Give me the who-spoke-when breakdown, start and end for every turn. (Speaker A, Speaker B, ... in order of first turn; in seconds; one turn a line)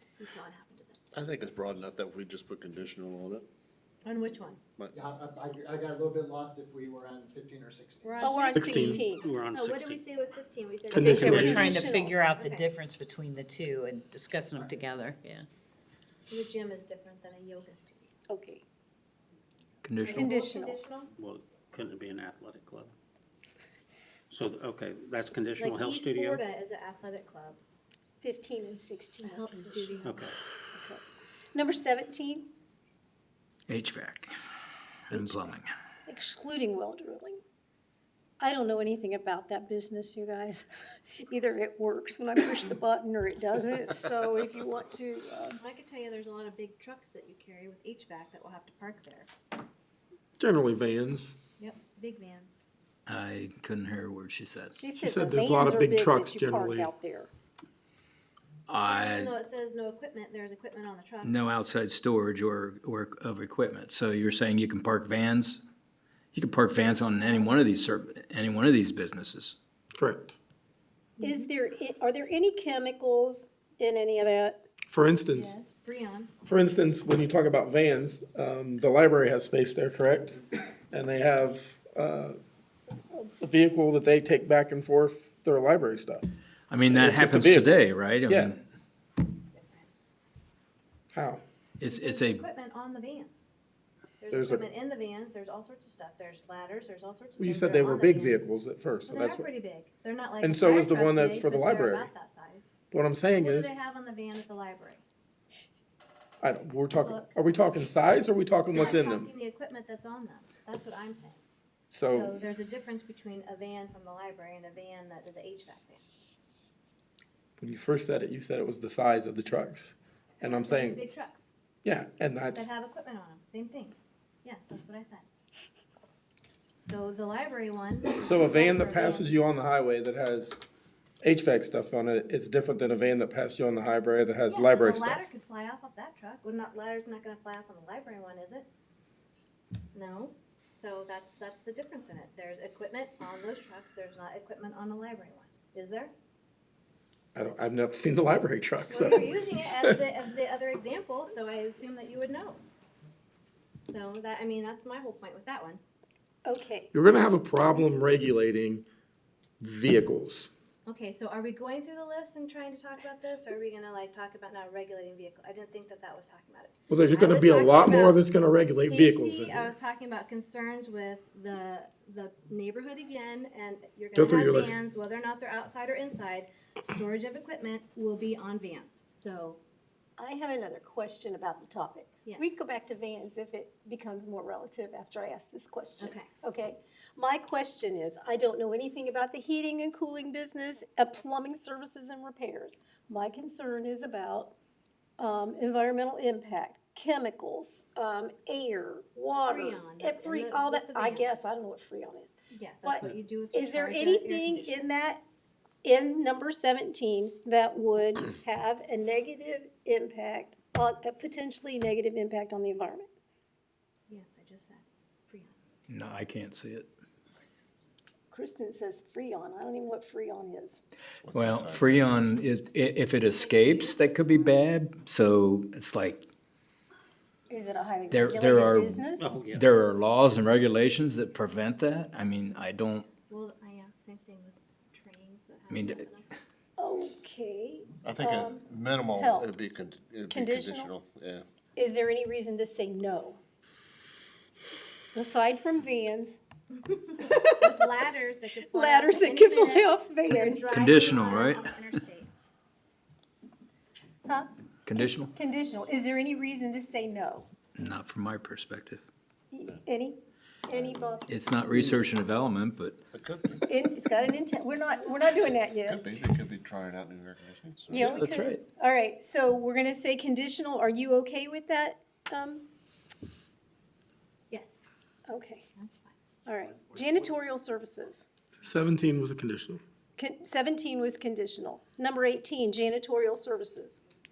Speaker A: 0.1-1.2
Speaker B: 1.1-3.5
Speaker A: 4.0-4.6
Speaker C: 4.9-8.3
Speaker A: 8.0-11.8
Speaker D: 8.2-9.3
Speaker E: 8.5-9.1
Speaker F: 9.2-10.0
Speaker E: 10.9-11.8
Speaker G: 11.0-15.5
Speaker D: 11.2-12.2
Speaker A: 12.3-12.7
Speaker A: 16.3-18.1
Speaker D: 18.3-18.6
Speaker H: 19.8-20.1
Speaker A: 20.0-21.1
Speaker D: 20.1-20.8
Speaker F: 21.1-22.9
Speaker F: 24.3-26.4
Speaker A: 25.6-27.6
Speaker D: 28.2-30.1
Speaker A: 29.2-30.3
Speaker F: 30.0-30.3
Speaker D: 30.7-32.5
Speaker H: 33.7-34.3
Speaker H: 35.1-35.7
Speaker D: 36.1-37.4
Speaker D: 38.4-40.6
Speaker D: 41.2-45.6
Speaker A: 45.6-49.3
Speaker E: 50.4-51.3
Speaker A: 51.6-52.6
Speaker H: 53.0-54.7
Speaker D: 54.8-57.3
Speaker E: 55.0-56.9
Speaker H: 58.7-59.3
Speaker A: 58.9-61.5
Speaker H: 61.2-65.6
Speaker H: 66.3-69.5
Speaker E: 70.0-70.3
Speaker A: 71.2-71.5
Speaker D: 71.2-74.6
Speaker E: 74.9-75.5
Speaker A: 75.3-76.3
Speaker E: 76.5-82.4
Speaker E: 83.1-86.3
Speaker H: 86.7-88.5
Speaker E: 86.9-87.8
Speaker E: 88.3-88.5
Speaker A: 89.2-89.9
Speaker E: 91.1-91.4
Speaker H: 91.8-92.4
Speaker A: 91.9-93.5
Speaker A: 94.2-98.4
Speaker E: 94.3-94.6
Speaker E: 97.4-99.5
Speaker A: 99.1-102.7
Speaker E: 100.4-102.1
Speaker E: 102.9-103.7
Speaker A: 103.4-105.0
Speaker E: 106.4-109.3
Speaker A: 107.0-107.4
Speaker A: 108.7-111.4
Speaker E: 111.9-112.3
Speaker A: 112.1-116.0
Speaker E: 117.6-121.0
Speaker A: 120.4-121.5
Speaker E: 121.8-122.7
Speaker A: 122.5-125.2
Speaker A: 126.8-129.3
Speaker E: 128.2-130.6
Speaker E: 131.2-135.2
Speaker A: 134.5-138.7
Speaker A: 139.9-146.1
Speaker E: 147.3-149.9
Speaker A: 148.9-152.6
Speaker A: 153.9-155.8
Speaker D: 156.4-156.9
Speaker E: 156.9-158.8
Speaker E: 159.6-160.5
Speaker A: 160.8-179.6
Speaker E: 166.9-169.7
Speaker E: 174.1-174.7
Speaker D: 180.2-194.5
Speaker A: 182.2-182.6
Speaker A: 186.0-186.3
Speaker D: 195.2-202.3
Speaker A: 199.4-201.3
Speaker A: 202.5-204.8
Speaker D: 202.8-205.2
Speaker D: 205.8-213.1
Speaker A: 214.1-215.6
Speaker H: 215.9-216.9
Speaker D: 218.3-220.8
Speaker B: 221.2-222.3
Speaker H: 221.4-226.2
Speaker A: 223.2-224.6
Speaker D: 227.5-229.3
Speaker H: 228.1-229.0
Speaker F: 229.1-229.7
Speaker H: 229.6-233.0
Speaker A: 233.3-236.3
Speaker H: 235.7-236.1
Speaker D: 236.8-239.5
Speaker B: 238.0-241.4
Speaker D: 240.3-240.9
Speaker D: 241.8-243.4
Speaker D: 245.1-246.4
Speaker A: 247.1-252.3
Speaker D: 248.7-250.7
Speaker H: 250.8-251.6
Speaker H: 254.8-255.3
Speaker D: 255.2-257.5
Speaker H: 257.8-259.0
Speaker D: 259.5-261.3
Speaker B: 260.7-261.2
Speaker H: 261.3-262.9
Speaker B: 263.1-263.7
Speaker D: 263.7-266.2
Speaker B: 265.8-268.1
Speaker D: 267.9-272.7
Speaker H: 268.1-268.6
Speaker A: 274.5-274.8
Speaker D: 275.3-275.6
Speaker A: 275.8-276.1
Speaker D: 276.4-278.2
Speaker E: 278.6-279.8
Speaker D: 280.2-284.0